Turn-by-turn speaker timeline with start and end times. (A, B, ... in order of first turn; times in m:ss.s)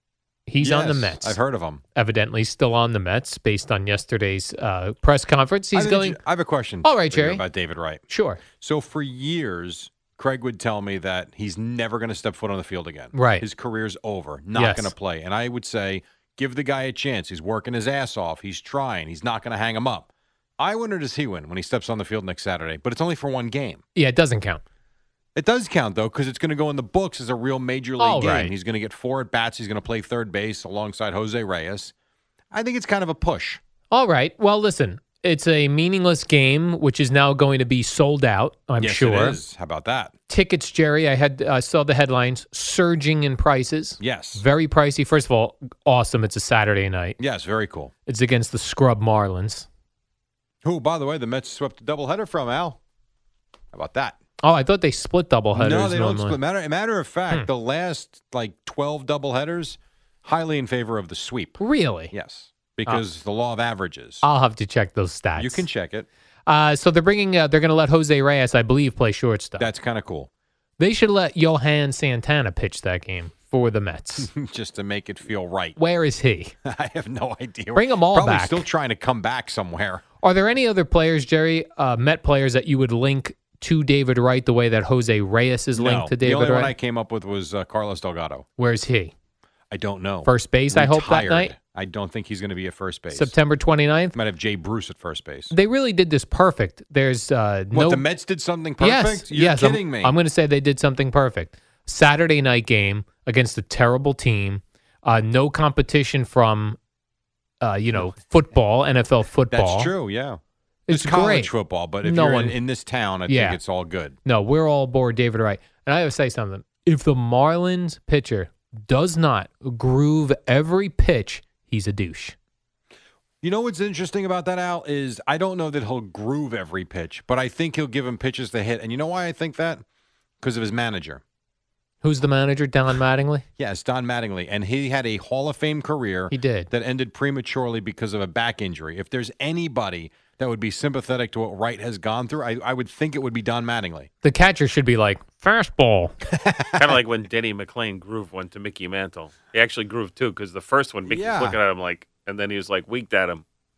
0:00.5-0:01.4 A
0:00.6-0:01.8 B
0:02.0-0:06.2 A
0:05.7-0:08.0 B
0:06.8-0:07.4 A
0:08.1-0:08.4 A
0:08.5-0:23.8 B
0:13.1-0:13.4 A
0:14.5-0:14.9 A
0:24.0-0:24.6 A
0:25.4-0:31.9 B
0:28.0-0:28.5 A
0:32.5-0:33.6 B
0:33.9-0:39.4 A
0:38.8-0:40.1 B
0:40.3-0:47.2 A
0:44.0-0:44.4 B
0:47.2-0:47.9 B
0:48.1-0:49.7 A
0:50.6-0:52.8 B
0:53.7-0:54.2 B
0:54.4-0:56.4 A
0:55.5-1:04.2 B
1:01.6-1:02.1 A
1:04.2-1:05.6 A
1:05.4-1:06.1 B
1:06.5-1:09.7 A
1:09.6-1:10.3 B
1:10.8-1:14.3 A
1:14.2-1:15.8 B
1:15.8-1:16.5 A
1:16.6-1:20.0 B
1:17.7-1:18.6 A
1:20.2-1:26.7 A
1:25.8-1:28.4 B
1:28.6-1:29.1 A
1:29.7-1:33.4 B
1:30.2-1:31.5 A
1:33.1-1:34.1 A
1:34.1-1:35.5 B
1:35.5-1:38.0 A
1:37.7-1:40.2 B
1:38.8-1:46.8 A
1:47.6-1:49.9 A
1:49.5-1:54.2 B
1:50.9-1:51.5 A
1:52.0-1:52.6 A
1:53.3-1:53.6 A
1:54.2-2:02.4 A
2:03.4-2:09.8 B
2:10.4-2:11.2 B
2:12.0-2:13.4 A
2:13.6-2:24.1 B
2:16.3-2:16.7 A
2:24.2-2:26.1 A
2:26.3-2:26.8 B
2:26.7-2:33.4 C
2:31.1-2:31.6 B